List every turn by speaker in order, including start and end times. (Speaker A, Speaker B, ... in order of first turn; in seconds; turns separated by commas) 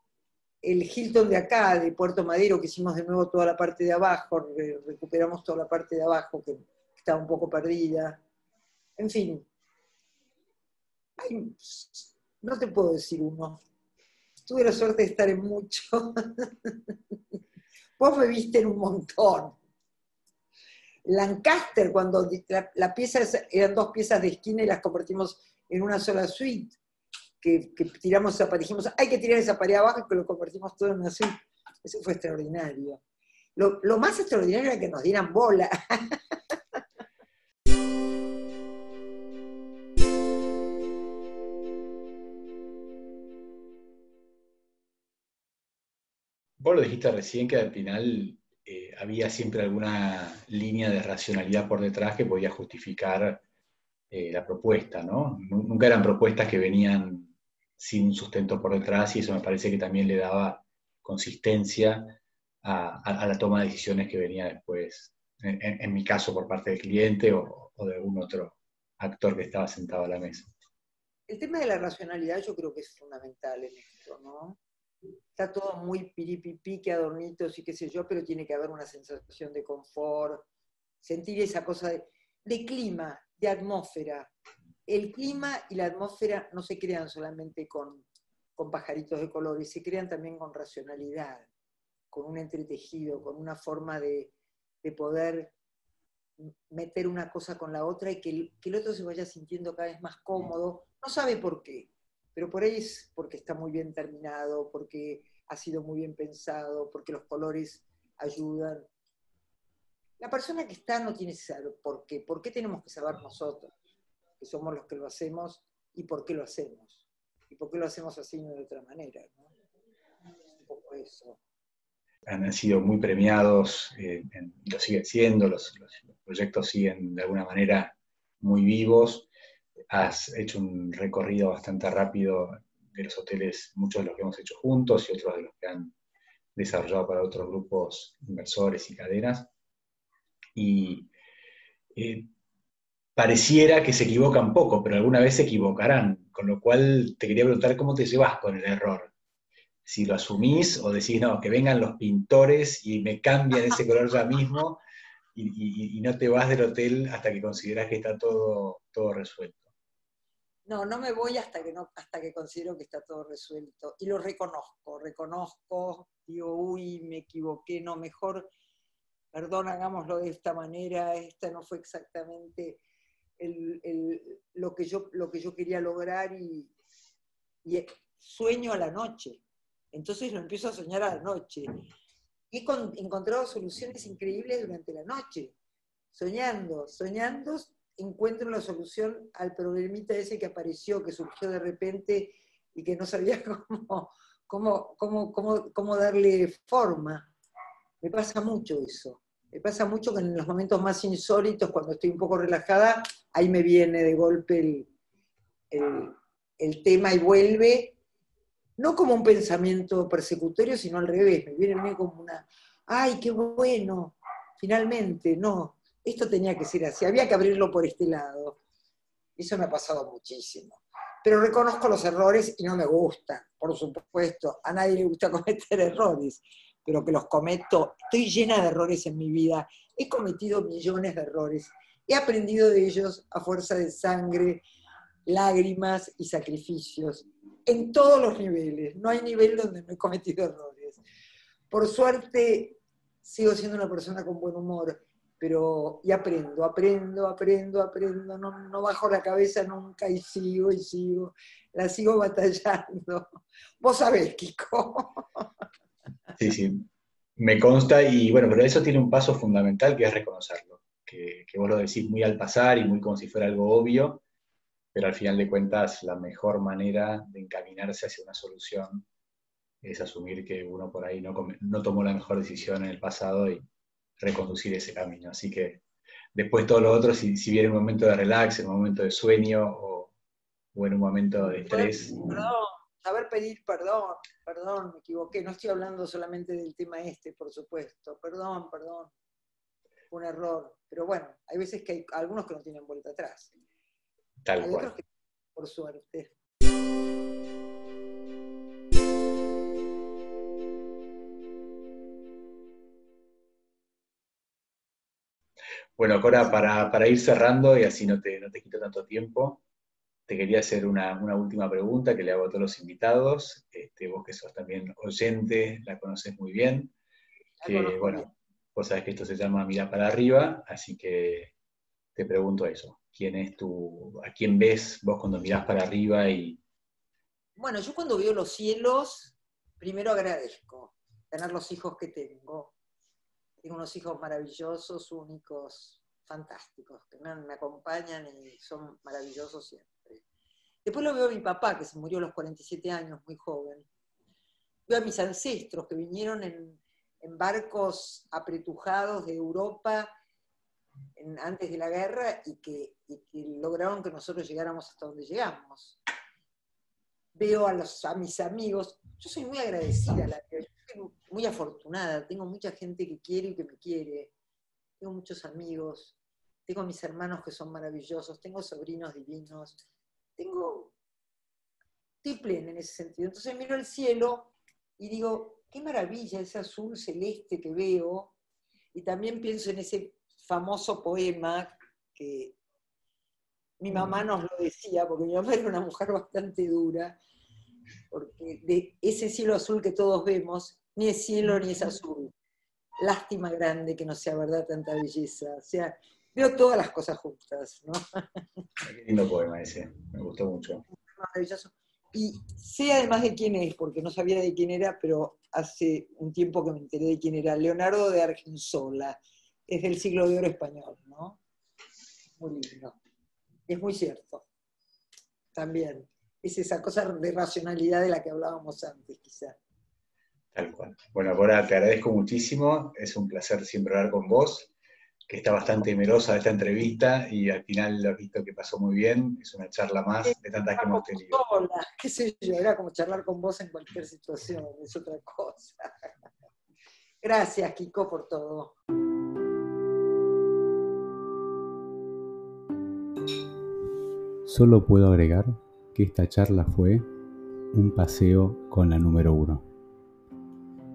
Speaker A: 0.6-8.2, Speaker A: 9.0-9.5, Speaker A: 11.2-13.6, Speaker A: 14.4-17.1, Speaker A: 18.0-19.6, Speaker A: 21.0-26.8, Speaker A: 27.4-33.0, Speaker A: 33.5-36.8, Speaker B: 46.6-53.4, Speaker B: 54.1-70.5, Speaker A: 71.3-74.6, Speaker A: 75.3-80.5, Speaker A: 81.0-84.3, Speaker A: 84.9-88.0, Speaker A: 88.5-91.5, Speaker A: 92.1-95.5, Speaker A: 96.4-108.9, Speaker A: 110.2-113.7, Speaker A: 114.4-119.5, Speaker A: 120.6-121.4, Speaker B: 122.2-129.3, Speaker B: 129.9-135.9, Speaker B: 136.5-139.5, Speaker B: 140.5-141.1, Speaker B: 141.9-142.3, Speaker B: 143.2-149.1, Speaker B: 149.8-154.8, Speaker B: 155.3-159.7, Speaker A: 160.7-168.5, Speaker A: 169.3-172.8, Speaker A: 173.4-176.7, Speaker A: 177.6-181.7, Speaker A: 182.5-185.5, Speaker A: 186.1-197.3, Speaker A: 198.0-204.9, Speaker A: 205.7-207.9, Speaker A: 208.8-218.6, Speaker A: 219.4-234.6, Speaker A: 235.2-241.0, Speaker A: 241.7-255.5, Speaker B: 256.4-264.2, Speaker B: 264.9-269.1, Speaker B: 269.8-273.6, Speaker B: 274.2-275.8, Speaker B: 276.3-280.1, Speaker B: 280.7-282.4, Speaker A: 281.5-289.1, Speaker A: 290.1-293.5, Speaker B: 294.4-294.9, Speaker A: 294.6-295.0, Speaker A: 295.5-296.3, Speaker B: 306.0-309.6, Speaker B: 310.3-316.9, Speaker A: 317.6-318.3, Speaker B: 317.6-321.5, Speaker B: 322.1-326.6, Speaker A: 327.6-332.7, Speaker A: 333.6-340.2, Speaker A: 340.8-343.9, Speaker A: 344.9-350.1, Speaker A: 351.1-356.0, Speaker A: 357.3-364.3, Speaker A: 365.0-369.8, Speaker A: 370.4-370.9, Speaker A: 372.2-378.3, Speaker A: 378.9-382.6, Speaker A: 383.8-387.2, Speaker A: 388.1-392.3, Speaker A: 393.0-398.4, Speaker B: 398.8-400.8, Speaker A: 401.0-411.4, Speaker A: 412.4-413.0, Speaker A: 413.7-414.4, Speaker A: 415.5-419.6, Speaker B: 420.5-424.7, Speaker B: 425.3-431.4, Speaker A: 430.2-435.9, Speaker A: 437.2-438.8, Speaker C: 444.4-447.0, Speaker C: 447.7-449.6